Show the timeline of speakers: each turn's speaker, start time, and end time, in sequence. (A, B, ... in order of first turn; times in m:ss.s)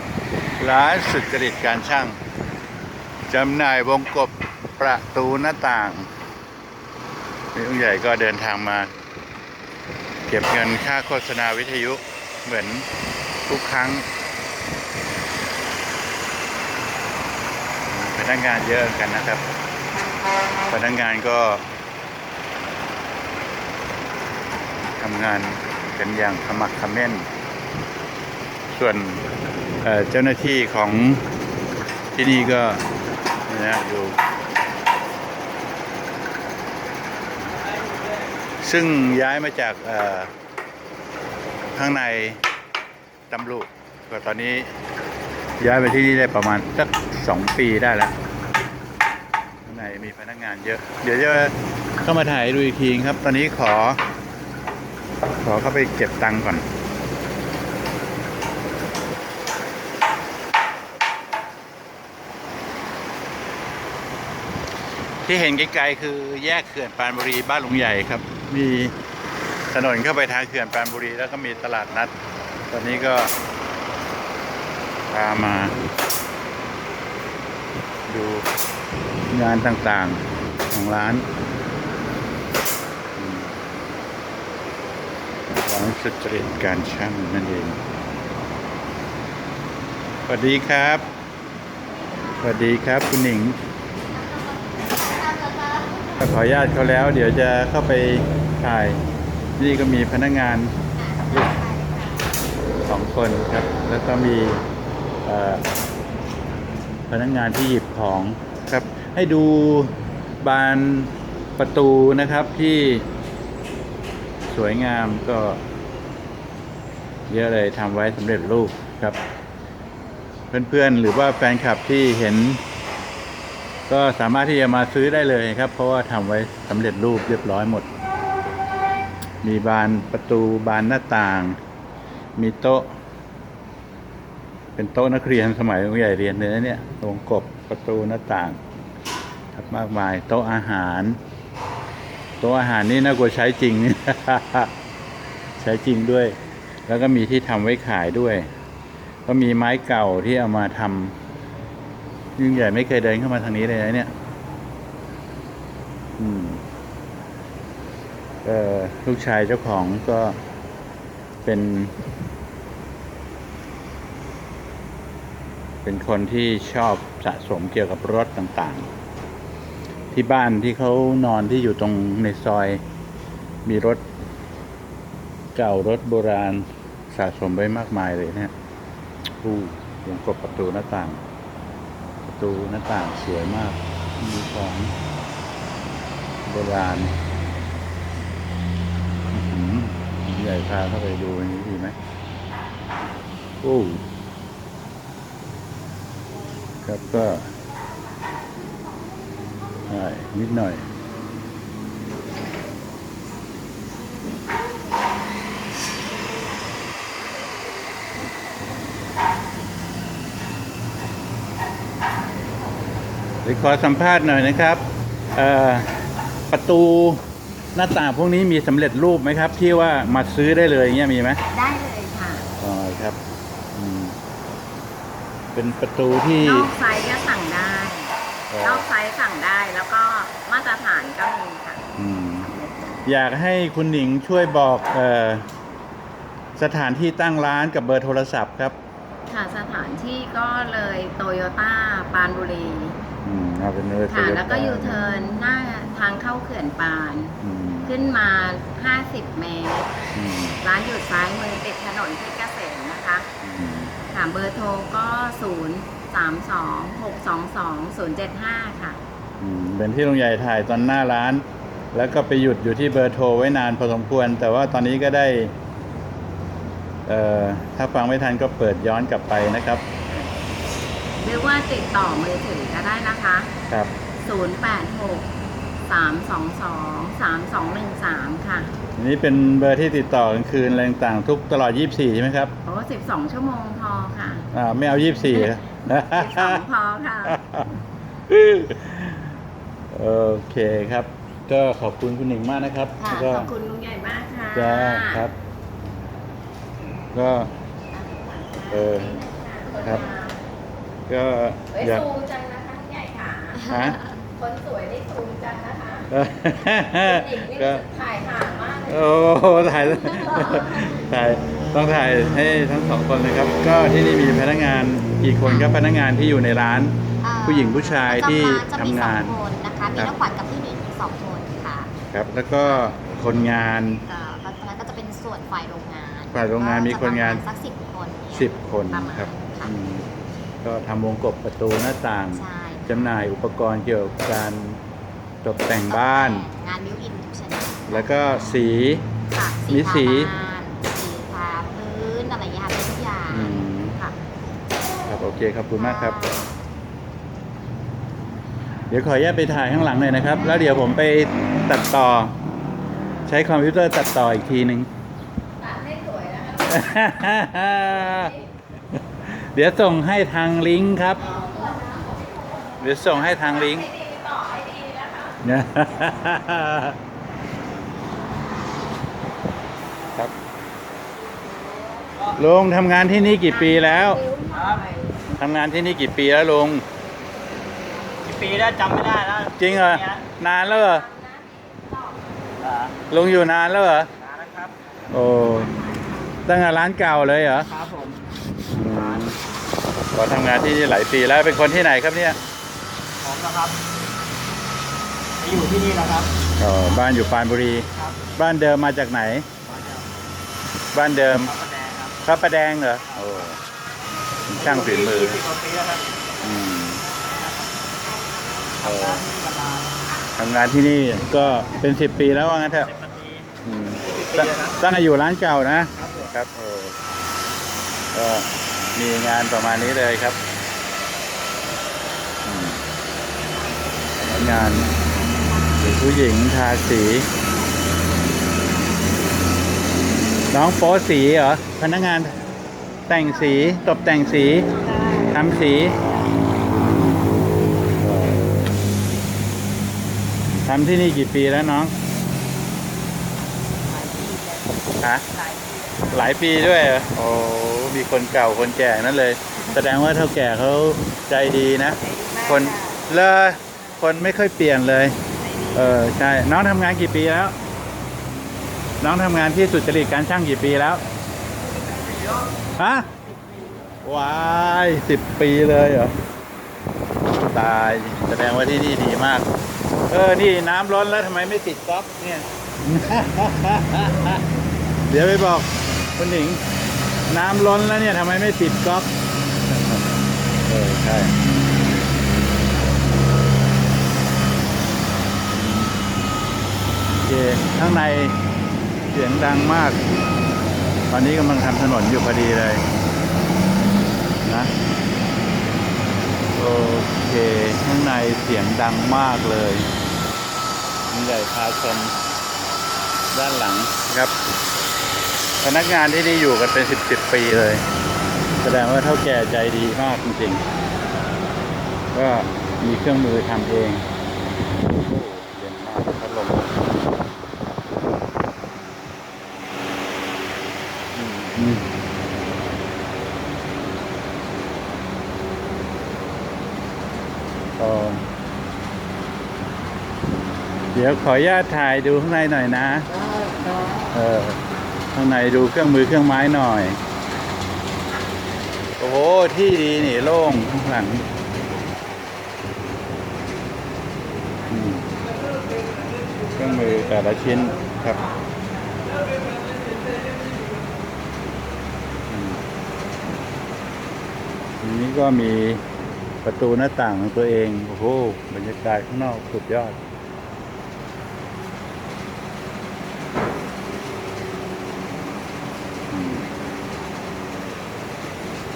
0:00.6-0:02.2 A
0:03.3-0:06.1 A
0:07.5-0:08.9 A
0:10.3-0:12.9 A
0:13.5-0:14.1 A
0:17.9-0:19.4 A
0:20.7-0:21.6 A
0:25.0-0:27.3 A
0:28.7-0:29.2 A
0:29.8-0:31.2 A
0:32.2-0:32.8 A
0:33.5-0:34.2 A
0:38.6-0:40.3 A
0:41.8-0:42.4 A
0:43.3-0:44.7 A
0:45.6-0:48.1 A
0:49.7-0:54.0 A
0:55.4-0:56.7 A
1:05.2-1:08.9 A
1:09.7-1:12.1 A
1:12.7-1:13.3 A
1:15.1-1:15.8 A
1:18.1-1:18.4 A
1:19.3-1:21.3 A
1:23.2-1:23.7 A
1:25.6-1:27.8 A
1:30.3-1:31.1 A
1:32.4-1:33.6 A
1:34.1-1:36.2 B
1:36.2-1:39.0 A
1:39.6-1:40.8 A
1:41.0-1:42.3 B
1:42.9-1:44.6 A
1:45.2-1:45.6 A
1:47.1-1:53.1 A
1:54.5-1:55.6 A
1:57.3-1:59.2 A
2:00.5-2:02.6 A
2:03.9-2:07.9 A
2:09.4-2:11.6 A
2:12.4-2:12.9 A
2:14.8-2:18.6 A
2:19.6-2:21.2 A
2:22.4-2:24.7 A
2:25.6-2:26.4 A
2:26.9-2:28.5 A
2:29.3-2:31.2 A
2:32.4-2:34.1 A
2:36.2-2:36.6 A
2:38.4-2:40.4 A
2:41.4-2:42.0 A
2:45.8-2:48.9 A
2:50.1-2:52.8 A
2:53.6-2:54.0 A
2:55.6-2:58.5 A
2:59.4-3:01.2 A
3:02.3-3:04.9 A
3:06.5-3:07.1 A
3:09.3-3:12.0 A
3:13.6-3:14.0 A
3:16.8-3:17.5 A
3:19.9-3:20.9 A
3:33.4-3:34.8 A
3:35.4-3:37.2 A
3:37.8-3:41.4 A
3:41.5-3:42.5 C
3:42.6-3:43.2 A
3:43.8-3:44.2 A
3:45.5-3:46.7 A
3:46.4-3:51.9 C
3:48.5-3:48.9 A
3:52.0-3:52.5 A
3:52.5-3:53.0 C
3:53.0-3:55.5 A
3:56.6-3:58.8 A
3:59.3-4:03.0 C
4:03.2-4:05.0 A
4:04.1-4:09.9 C
4:07.4-4:08.0 A
4:10.1-4:10.6 A
4:10.6-4:13.3 C
4:13.4-4:14.0 A
4:14.1-4:19.0 C
4:19.4-4:25.5 A
4:27.1-4:29.8 A
4:31.2-4:33.5 C
4:34.2-4:35.3 C
4:35.9-4:38.7 C
4:39.0-4:42.5 A
4:42.6-4:44.5 C
4:44.5-4:46.6 A
4:45.3-4:47.4 C
4:47.3-4:47.7 A
4:48.3-4:49.4 A
4:49.9-4:53.5 A
4:53.0-4:55.3 C
4:54.5-4:55.3 A
4:57.1-4:57.5 A
4:57.9-5:00.4 C
4:58.7-4:59.2 A
4:59.8-5:00.1 A
5:01.1-5:02.1 A
5:01.7-5:06.1 C
5:03.6-5:04.1 A
5:06.1-5:07.8 A
5:06.8-5:11.0 C
5:08.9-5:19.4 A
5:15.4-5:15.8 B
5:17.2-5:21.9 B
5:22.1-5:24.0 A
5:22.6-5:23.0 B
5:24.1-5:29.7 B
5:26.3-5:27.4 A
5:28.3-5:30.1 A
5:30.6-5:34.8 A
5:32.3-5:33.2 B
5:35.4-5:36.5 A
5:35.9-5:38.6 B
5:37.9-5:39.0 A
5:39.4-5:43.6 B
5:39.7-5:40.3 A
5:43.3-5:44.0 A
5:45.1-5:46.2 A
5:45.8-5:46.5 B
5:48.9-5:52.3 A
5:53.3-5:54.9 A
5:55.6-5:58.5 C
5:56.7-5:58.3 A
5:59.2-6:01.3 A
6:01.2-6:05.4 C
6:01.3-6:02.3 B
6:02.8-6:03.9 A
6:05.4-6:07.0 A
6:12.3-6:14.2 A
6:13.3-6:15.3 C
6:14.5-6:14.8 D
6:15.4-6:16.8 A
6:18.2-6:20.2 D
6:19.6-6:21.1 A
6:20.4-6:22.5 C
6:22.6-6:22.9 D
6:23.1-6:24.1 A
6:24.2-6:24.8 D
6:25.1-6:25.7 A
6:25.3-6:26.2 C
6:26.5-6:27.7 A
6:27.7-6:28.2 D
6:28.7-6:29.4 A
6:29.0-6:29.2 D
6:30.1-6:32.4 A
6:33.2-6:33.8 D
6:35.4-6:36.3 D
6:36.6-6:39.5 A
6:39.7-6:40.0 D
6:40.9-6:41.5 A
6:41.4-6:42.2 D
6:42.2-6:43.6 A
6:44.2-6:44.5 C
6:44.5-6:45.4 A
6:44.6-6:46.2 D
6:46.4-6:47.0 A
6:47.2-6:47.7 D
6:48.1-6:48.8 C
6:48.8-6:50.0 D
6:48.8-6:49.2 A
6:50.4-6:52.9 A
6:53.0-6:53.4 D
6:53.6-6:57.0 A
6:54.1-6:54.8 D
6:58.1-7:00.4 A
7:02.4-7:02.8 A
7:04.2-7:04.9 A
7:05.8-7:07.3 A
7:10.5-7:12.4 A
7:13.1-7:14.7 A
7:14.7-7:15.1 C
7:15.3-7:16.0 A
7:18.0-7:18.6 A
7:20.7-7:21.9 A
7:24.0-7:24.6 D
7:25.5-7:25.9 D
7:26.1-7:35.2 A
7:32.2-7:32.5 D
7:35.7-7:37.6 A
7:39.0-7:41.0 A
7:41.9-7:42.6 D
7:42.8-7:43.1 A
7:44.0-7:46.2 A
7:47.5-7:49.5 A
7:50.1-7:54.4 A
7:55.1-7:56.6 A
7:57.3-7:59.1 A
7:59.7-8:01.4 A
8:05.5-8:06.0 A
8:07.2-8:08.4 A
8:09.1-8:10.0 A
8:11.1-8:12.8 A
8:14.4-8:14.7 A
8:16.6-8:19.9 A
8:21.1-8:22.1 A
8:23.3-8:24.4 A
8:25.6-8:27.8 A
8:28.6-8:30.6 A
8:32.1-8:34.0 A
8:34.8-8:37.1 A
8:41.1-8:41.9 A
8:47.8-8:48.2 A
8:50.9-8:53.1 A
8:54.1-8:54.6 A
8:55.1-8:57.0 A
8:59.0-9:01.2 A
9:04.7-9:05.1 A
9:06.6-9:08.2 A
9:12.3-9:12.6 A
9:14.8-9:15.8 A
9:16.4-9:20.0 A
9:26.1-9:26.5 A